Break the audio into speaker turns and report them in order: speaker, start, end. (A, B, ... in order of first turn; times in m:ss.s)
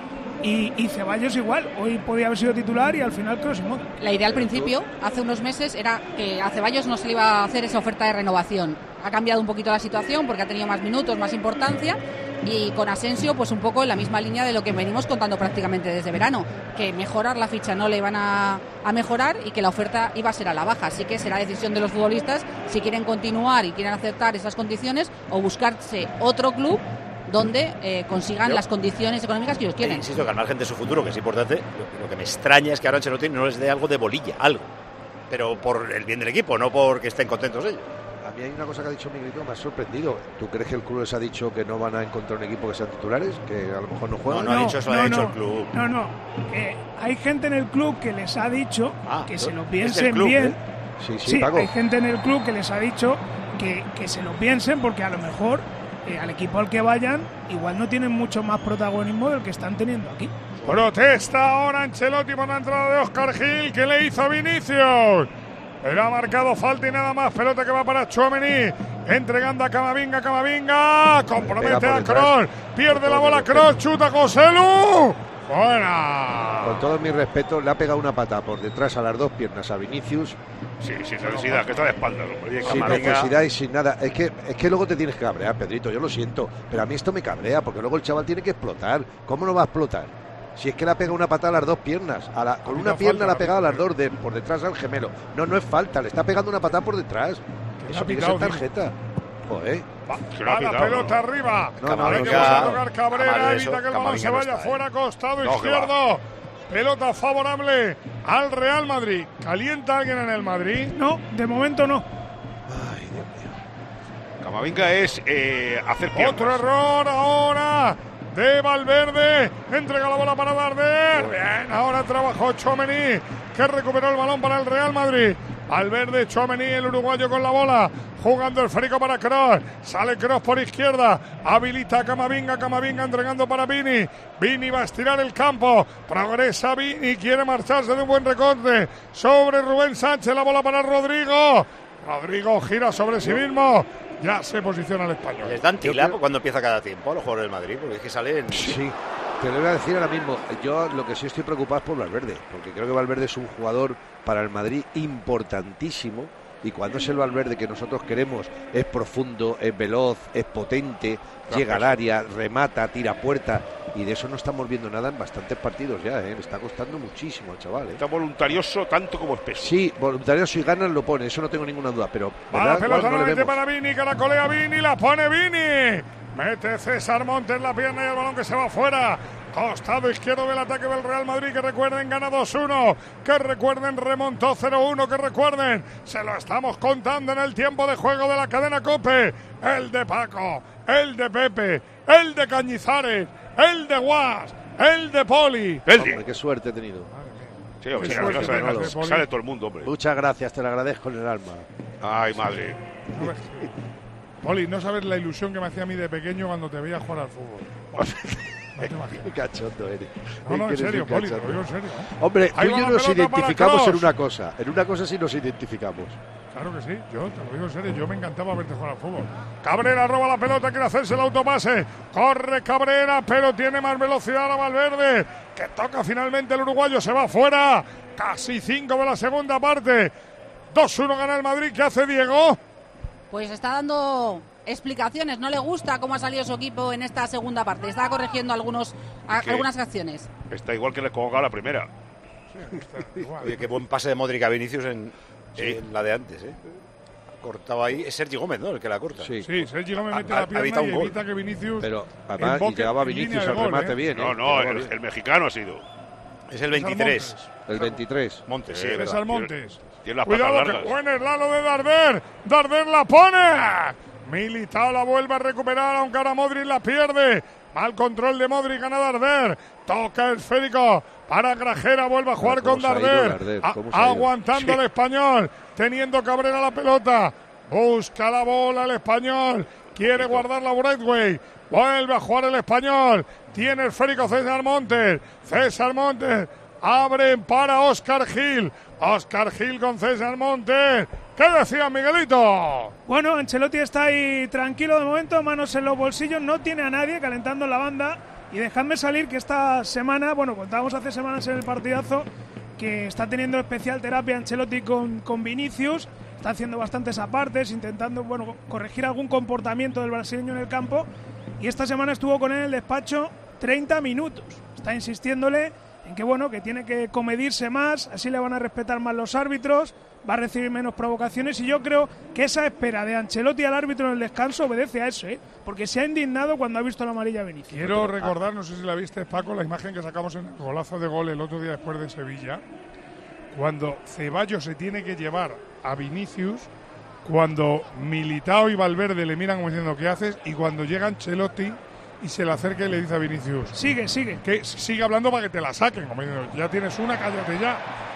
0:00.4-0:03.9 A
0:04.0-0:30.1 B
0:29.8-0:34.6 C
0:35.3-0:37.9 C
0:38.2-0:44.7 D
0:44.3-0:45.7 C
0:44.4-0:50.6 A
0:49.0-0:50.6 C
0:51.0-0:51.7 D
0:51.2-1:00.3 A
1:00.6-1:05.3 E
1:05.8-1:16.8 E
1:11.4-1:12.4 D
1:12.9-1:13.7 D
1:16.6-1:20.4 D
1:20.8-1:23.4 F
1:21.2-1:21.7 E
1:22.6-1:39.9 D
1:22.6-1:23.0 E
1:22.8-1:23.2 C
1:32.7-1:33.8 E
1:37.8-1:38.6 E
1:40.1-1:50.9 E
1:40.3-1:41.2 F
1:41.8-1:42.8 D
1:41.8-1:44.8 C
1:45.4-1:45.9 F
1:50.9-1:52.0 A
1:52.7-1:53.5 D
1:54.4-1:56.6 F
1:56.1-2:25.6 E
2:01.1-2:01.4 D
2:25.4-2:28.8 C
2:25.8-2:26.2 D
2:28.5-2:48.0 D
2:41.5-2:42.0 F
2:47.9-2:49.8 F
2:49.6-2:53.6 D
2:52.5-3:15.9 E
3:15.8-3:16.2 F
3:15.9-3:17.1 D
3:17.1-3:19.3 E
3:17.8-3:19.9 F
3:18.0-3:19.0 D
3:19.8-3:21.7 D
3:22.0-3:22.8 F
3:23.1-3:23.7 E
3:24.4-3:29.3 E
3:29.2-3:31.6 D
3:30.4-3:34.1 E
3:32.2-3:36.2 D
3:36.5-3:50.1 E
3:50.7-3:52.6 E
3:53.3-4:00.3 B
3:59.3-3:59.7 F
4:00.5-4:01.9 F
4:02.5-4:03.6 E
4:03.4-4:06.6 C
4:05.6-4:05.8 F
4:07.4-4:09.4 C
4:09.2-4:09.5 D
4:09.4-4:14.1 E
4:10.1-4:11.1 C
4:11.8-4:14.9 D
4:14.1-4:15.8 F
4:16.5-4:17.3 C
4:16.7-4:17.9 E
4:17.7-4:18.4 D
4:18.5-4:19.2 C
4:18.7-4:19.5 F
4:18.9-4:52.9 E
4:20.0-4:20.9 F
4:32.4-4:34.3 D
4:39.9-4:40.4 F
4:53.1-5:28.0 A
5:27.7-5:32.6 E
5:27.9-5:28.3 D
5:33.5-5:36.7 E
5:37.2-5:43.8 E
5:43.7-5:44.4 A
5:44.4-5:47.8 E